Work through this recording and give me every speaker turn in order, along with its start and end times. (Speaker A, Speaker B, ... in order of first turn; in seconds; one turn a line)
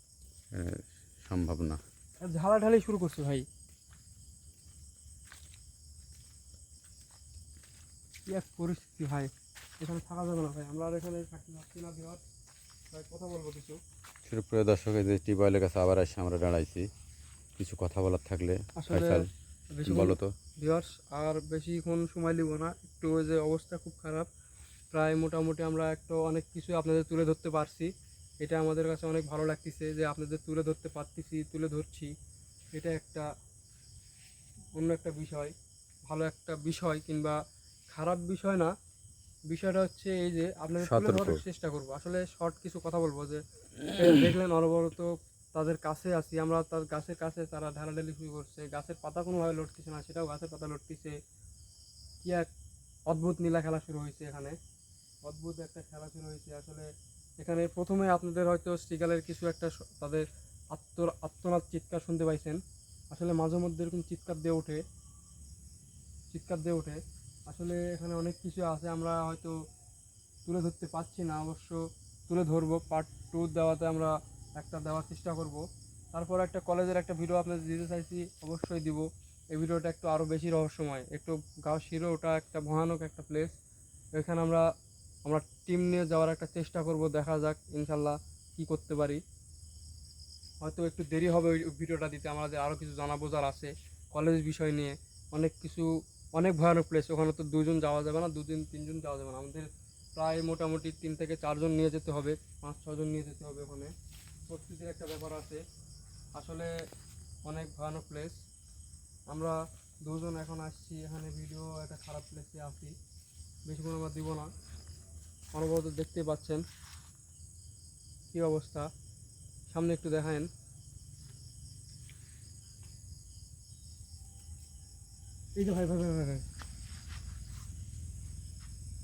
Speaker A: 0.5-1.8
Speaker B: 2.2-3.5
Speaker B: 8.3-12.2
Speaker B: 12.9-13.8
Speaker A: 14.3-16.9
Speaker A: 17.6-19.3
Speaker B: 18.8-24.3
Speaker A: 19.9-20.3
Speaker B: 24.9-32.1
Speaker B: 32.8-33.3
Speaker B: 34.8-35.5
Speaker B: 36.1-37.4
Speaker B: 37.9-38.7
Speaker B: 39.5-51.2
Speaker A: 40.8-41.4
Speaker B: 52.2-52.5
Speaker B: 53.1-54.6
Speaker B: 55.2-56.9
Speaker B: 57.4-64.8
Speaker B: 66.3-69.5
Speaker B: 70.5-83.6
Speaker B: 84.2-84.7
Speaker B: 85.3-89.2
Speaker B: 90.6-103.9
Speaker B: 104.5-105.6
Speaker B: 106.4-106.8
Speaker B: 107.5-108.4
Speaker B: 109.3-113.0
Speaker B: 113.7-114.5
Speaker B: 115.5-116.6
Speaker B: 118.3-118.9
Speaker B: 119.7-120.5
Speaker B: 125.6-126.5